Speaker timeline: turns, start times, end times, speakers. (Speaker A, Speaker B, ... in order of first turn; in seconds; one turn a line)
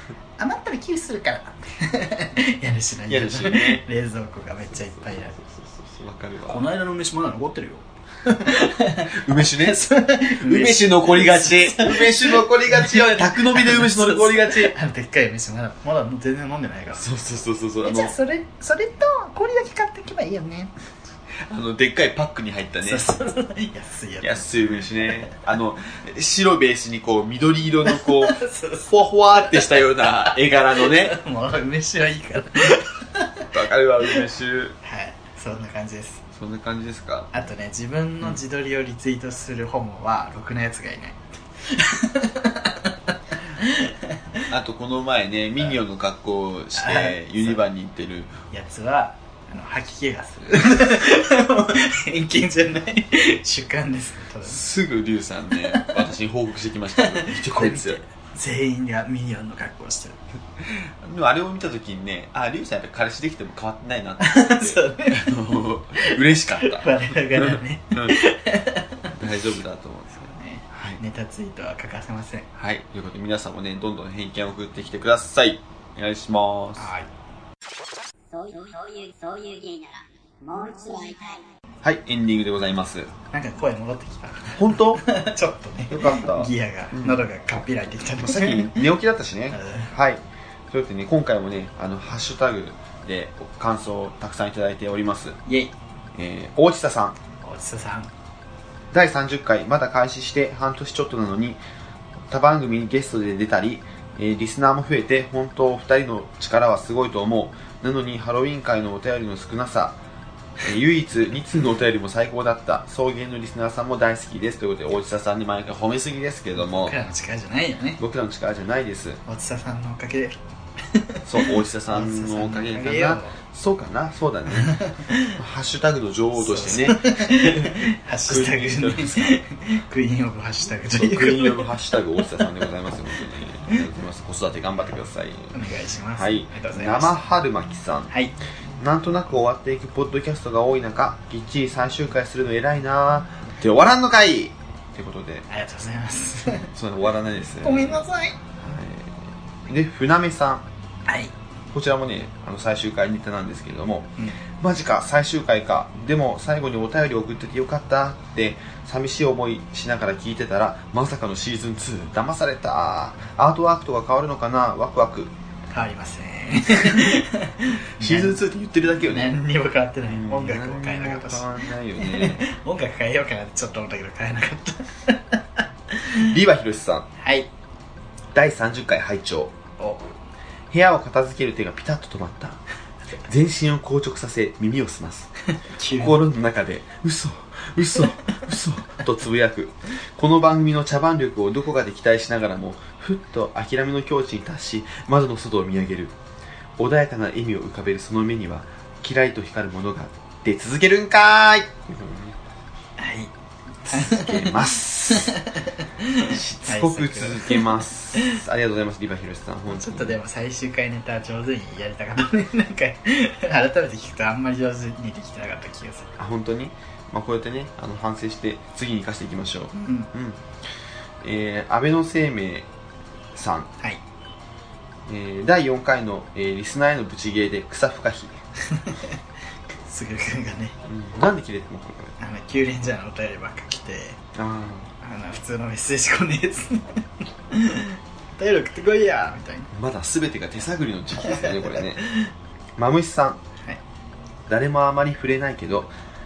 Speaker A: 0.4-5.4
Speaker B: 3.1-3.8
Speaker B: 4.8-6.7
Speaker A: 6.5-17.1
Speaker B: 9.1-14.7
Speaker B: 16.9-18.1
Speaker A: 17.8-20.7
Speaker B: 21.4-23.1
Speaker A: 22.8-25.3
Speaker B: 24.2-31.2
Speaker A: 27.8-33.5
Speaker B: 33.5-34.8
Speaker A: 34.8-36.2
Speaker B: 36.3-37.3
Speaker A: 37.3-44.4
Speaker B: 44.5-48.4
Speaker A: 46.7-47.6
Speaker A: 48.5-54.6
Speaker B: 54.4-58.0
Speaker A: 55.5-56.0
Speaker A: 57.0-60.2
Speaker B: 60.6-68.2
Speaker A: 64.2-65.3
Speaker A: 66.0-69.1
Speaker B: 69.1-71.0
Speaker A: 70.2-72.5
Speaker B: 72.5-76.9
Speaker A: 76.8-77.1
Speaker C: 78.3-81.5
Speaker B: 81.8-83.1
Speaker A: 83.3-88.8
Speaker B: 84.5-85.0
Speaker B: 85.9-87.2
Speaker B: 88.2-95.4
Speaker A: 89.5-89.9
Speaker A: 95.5-95.7
Speaker B: 96.1-97.2
Speaker A: 97.4-98.1
Speaker B: 98.9-101.6
Speaker B: 102.3-110.0
Speaker B: 110.6-116.9
Speaker A: 116.6-118.0
Speaker B: 118.0-119.2
Speaker A: 119.2-123.4
Speaker B: 121.2-129.4
Speaker A: 124.5-125.3
Speaker A: 126.4-131.7
Speaker B: 130.9-135.6
Speaker A: 135.5-137.2
Speaker B: 136.2-138.1
Speaker A: 138.1-138.4
Speaker B: 138.8-145.4
Speaker A: 145.5-146.7
Speaker B: 146.6-148.0
Speaker A: 147.6-148.4
Speaker B: 148.6-150.7
Speaker A: 151.1-151.3
Speaker B: 151.7-165.3
Speaker A: 165.7-168.4
Speaker B: 168.0-169.4
Speaker A: 169.0-176.2
Speaker B: 170.1-172.5
Speaker B: 176.2-177.1
Speaker A: 177.2-177.5
Speaker B: 178.3-179.5
Speaker A: 179.8-180.1
Speaker B: 180.7-182.6
Speaker B: 183.2-185.3
Speaker A: 185.5-186.2
Speaker B: 185.9-196.2
Speaker B: 196.8-202.3
Speaker A: 203.0-203.3
Speaker A: 203.8-208.3
Speaker B: 203.8-205.4
Speaker B: 206.2-210.2
Speaker A: 209.7-216.1
Speaker B: 216.2-220.4
Speaker A: 219.8-220.1
Speaker B: 221.2-222.7
Speaker B: 223.3-223.7
Speaker B: 225.1-228.4
Speaker A: 228.7-229.2
Speaker A: 229.8-230.8
Speaker B: 230.8-232.2
Speaker A: 232.2-234.2
Speaker B: 234.3-234.9
Speaker A: 235.0-239.7
Speaker B: 239.7-242.0
Speaker A: 241.2-242.3
Speaker B: 242.8-243.4
Speaker B: 244.5-245.9